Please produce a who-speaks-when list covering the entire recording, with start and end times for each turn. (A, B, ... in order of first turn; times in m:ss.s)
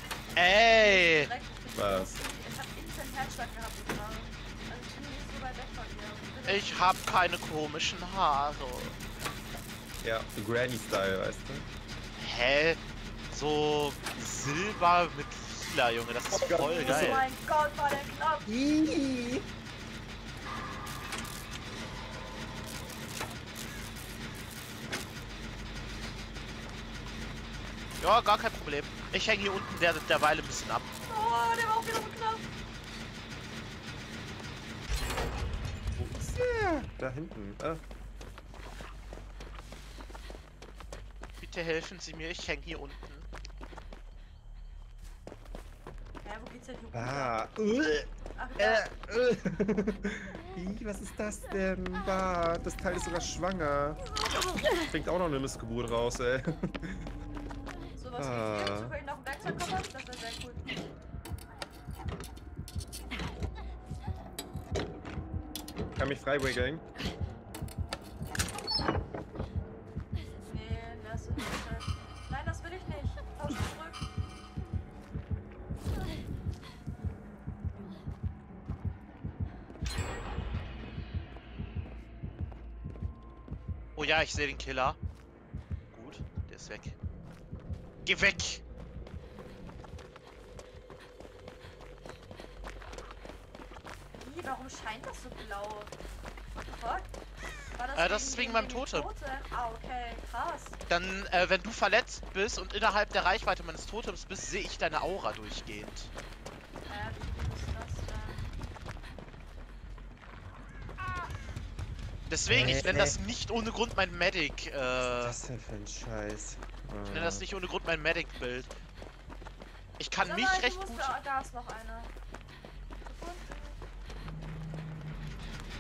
0:00.4-0:01.3 A
0:00.7-0:06.9 B
0:01.7-0:02.2 C
0:06.5-0:09.0 A
0:10.0-0:11.7 C
0:12.2-0:17.2 A
0:16.3-0:17.2 C
0:16.5-0:18.5 B
0:18.4-0:19.5 C
0:28.0-0:30.9 A
0:31.1-0:32.4 B
0:36.0-0:37.8 C
0:41.4-0:43.2 A
0:46.2-0:47.4 B
0:46.9-0:54.0 C
0:48.4-0:48.8 B
0:54.8-0:57.1 C
0:58.0-1:00.6 B
0:58.2-0:58.9 C
1:06.0-1:06.8 C
1:10.4-1:14.0 B
1:24.0-1:25.0 A
1:25.9-1:26.9 A
1:28.0-1:28.6 A
1:34.2-1:35.9 B
1:36.6-1:37.1 B
1:37.7-1:40.8 B
1:38.0-1:39.1 A
1:40.9-1:46.1 A
1:46.9-1:48.5 B
1:52.3-1:55.4 A
1:52.5-1:53.2 C
1:55.1-1:57.4 C
1:57.1-1:58.7 A
2:00.0-2:01.1 A
2:00.2-2:02.1 B
2:03.0-2:03.8 B